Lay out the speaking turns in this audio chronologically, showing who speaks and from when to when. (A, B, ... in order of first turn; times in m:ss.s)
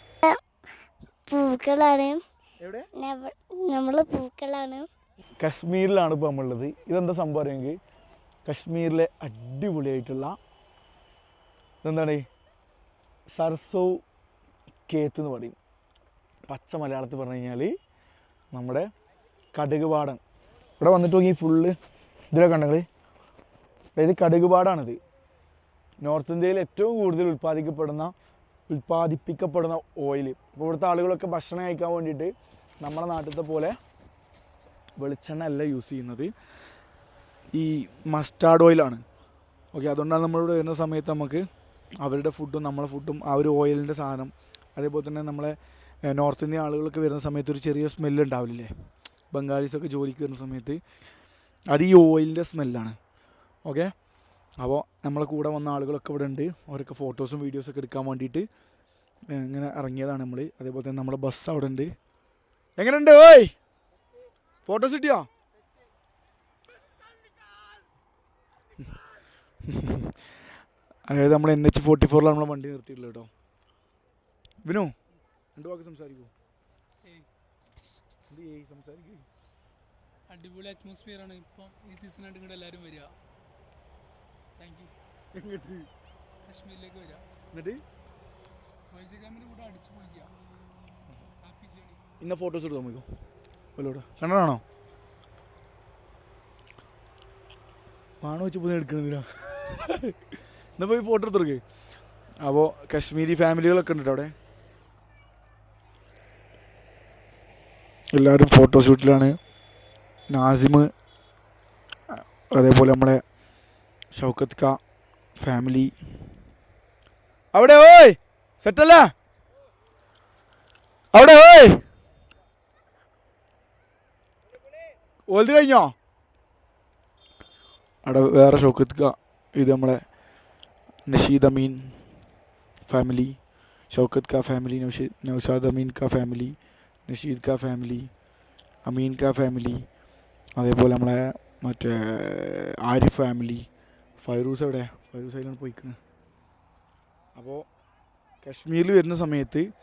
0:01.3-0:02.2 A
0:02.6-0:02.9 B
0:03.0-0:04.9 A
0:05.4-0:07.8 B
0:08.4-0:10.4 B
0:11.8-0:12.2 B
0:13.3-0:14.0 B
0:14.9-0:15.6 B
0:16.5-0:17.7 B
0:18.5-0:18.9 B
0:19.5-0:20.2 B
0:20.8-0:21.8 B
0:22.3-0:22.9 B
0:24.0-0:25.0 B
0:26.0-0:28.1 B
0:28.7-0:33.8 B
0:35.0-0:36.3 B
0:37.5-0:39.0 B
0:39.7-0:41.4 B
0:42.0-0:48.7 B
0:49.3-0:50.8 B
0:51.7-0:53.0 B
0:53.6-0:53.9 B
0:54.6-0:58.5 B
0:59.3-1:01.9 B
1:02.8-1:03.5 B
1:04.6-1:05.3 B
1:09.6-1:10.3 B
1:11.1-1:13.3 B
1:14.6-1:14.9 B
1:15.5-1:16.3 B
1:18.3-1:19.3 B
1:20.3-1:23.1 C
1:24.6-1:24.9 C
1:25.3-1:25.9 B
1:26.4-1:27.2 C
1:27.5-1:27.8 B
1:28.9-1:30.3 C
1:31.4-1:32.0 C
1:32.2-1:33.1 B
1:33.8-1:34.6 B
1:38.2-1:41.6 B
1:42.4-1:44.3 B
1:48.1-1:49.4 B
1:50.3-1:50.9 B
1:52.1-1:53.2 B
1:54.1-1:54.8 B
1:55.4-1:55.9 B
1:57.5-1:59.1 B
2:01.1-2:01.8 B
2:05.3-2:05.9 B
2:08.0-2:10.0 B
2:11.1-2:12.0 B
2:12.9-2:13.4 B
2:13.9-2:16.6 B
2:17.1-2:18.1 B
2:18.8-2:19.8 B
2:20.6-2:23.7 B
2:24.2-2:26.0 B
2:27.3-2:27.6 B
2:28.4-2:29.7 B